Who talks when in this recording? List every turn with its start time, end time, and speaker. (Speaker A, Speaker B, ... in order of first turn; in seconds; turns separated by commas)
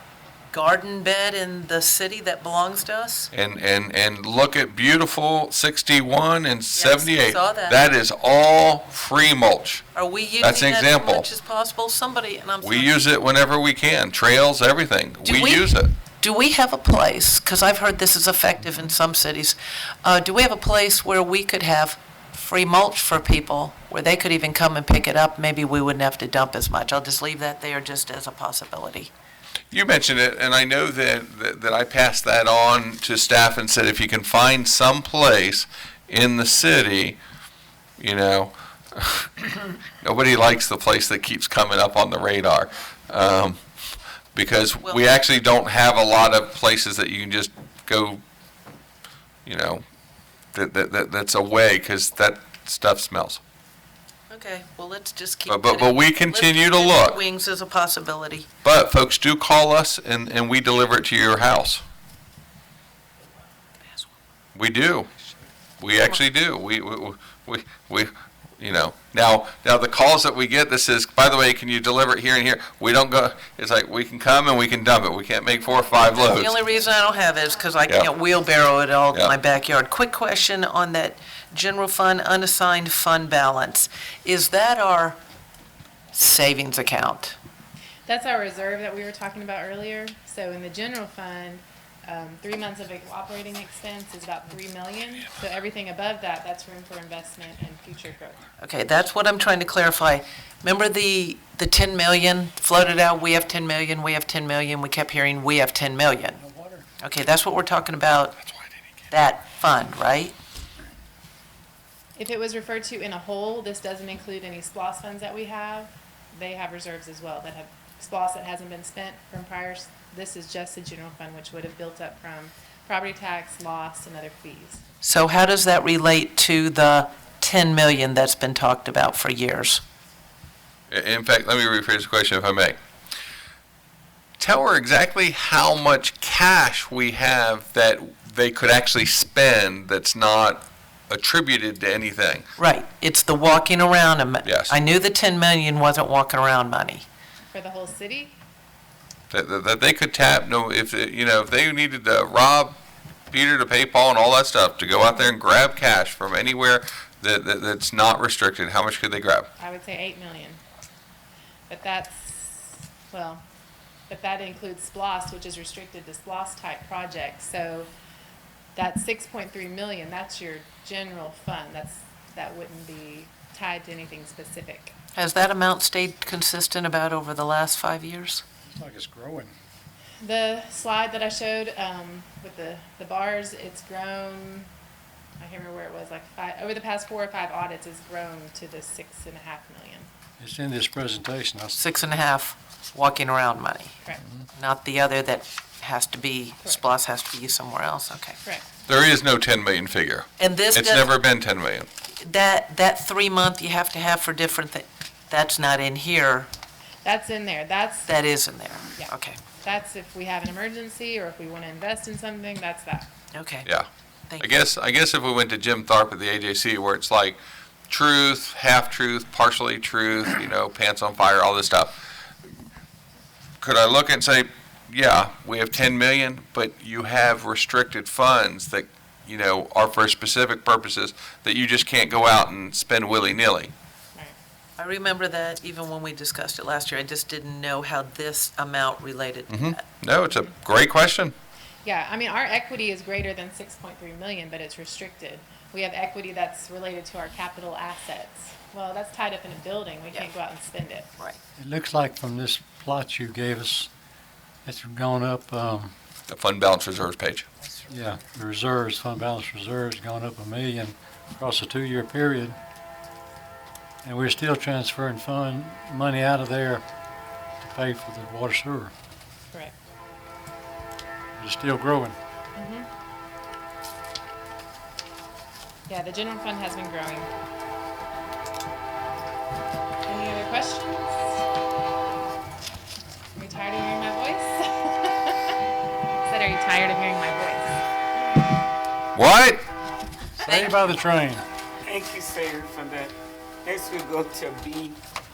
Speaker A: 0.5-3.3, Speaker B: 3.3-9.8, Speaker A: 6.8-7.8, Speaker A: 9.9-13.0, Speaker B: 10.4-11.3, Speaker B: 12.6-15.9, Speaker A: 15.2-29.1, Speaker B: 29.7-37.2, Speaker B: 38.0-39.3, Speaker B: 40.0-43.6, Speaker B: 44.4-48.2, Speaker B: 49.5-49.8, Speaker B: 50.5-53.4, Speaker A: 54.3-58.5, Speaker B: 55.5-57.2, Speaker B: 58.6-61.8, Speaker B: 64.5-65.1, Speaker B: 65.8-76.5, Speaker A: 76.0-85.2, Speaker A: 86.1-87.3, Speaker C: 88.1-98.4, Speaker A: 98.6-106.4, Speaker D: 106.4-106.9, Speaker A: 107.0-108.3, Speaker A: 109.1-110.3, Speaker C: 112.2-124.8, Speaker A: 125.0-129.8, Speaker B: 130.9-132.8, Speaker B: 134.4-142.5, Speaker A: 142.6-147.1, Speaker B: 144.4-144.7, Speaker C: 147.5-148.4, Speaker B: 149.3-152.8, Speaker B: 153.3-159.5, Speaker C: 159.6-160.6, Speaker C: 161.7-163.4, Speaker C: 164.1-167.9, Speaker C: 168.8-174.9, Speaker A: 175.2-178.4, Speaker D: 178.7-179.5, Speaker C: 180.2-184.7, Speaker C: 185.4-190.1, Speaker D: 190.4-191.8, Speaker A: 191.8-193.9, Speaker A: 194.6-198.4, Speaker B: 198.9-201.9, Speaker A: 200.4-201.1, Speaker A: 202.2-206.5, Speaker C: 207.1-208.1, Speaker A: 208.1-209.4, Speaker C: 208.9-213.1, Speaker A: 213.3-213.7, Speaker A: 214.3-214.6, Speaker B: 214.4-221.9, Speaker B: 223.6-233.7, Speaker A: 234.8-239.8, Speaker B: 239.5-241.3, Speaker C: 241.8-251.1, Speaker D: 251.6-253.9, Speaker D: 254.7-255.9, Speaker B: 256.3-257.5, Speaker D: 257.9-262.6, Speaker D: 264.0-266.8, Speaker D: 267.6-268.9, Speaker D: 271.4-272.2, Speaker C: 272.6-272.9, Speaker C: 275.9-277.3, Speaker C: 280.1-281.3, Speaker C: 283.4-285.6, Speaker C: 286.2-287.8, Speaker B: 289.1-289.6, Speaker D: 290.4-291.4, Speaker E: 291.8-293.1, Speaker E: 293.6-295.0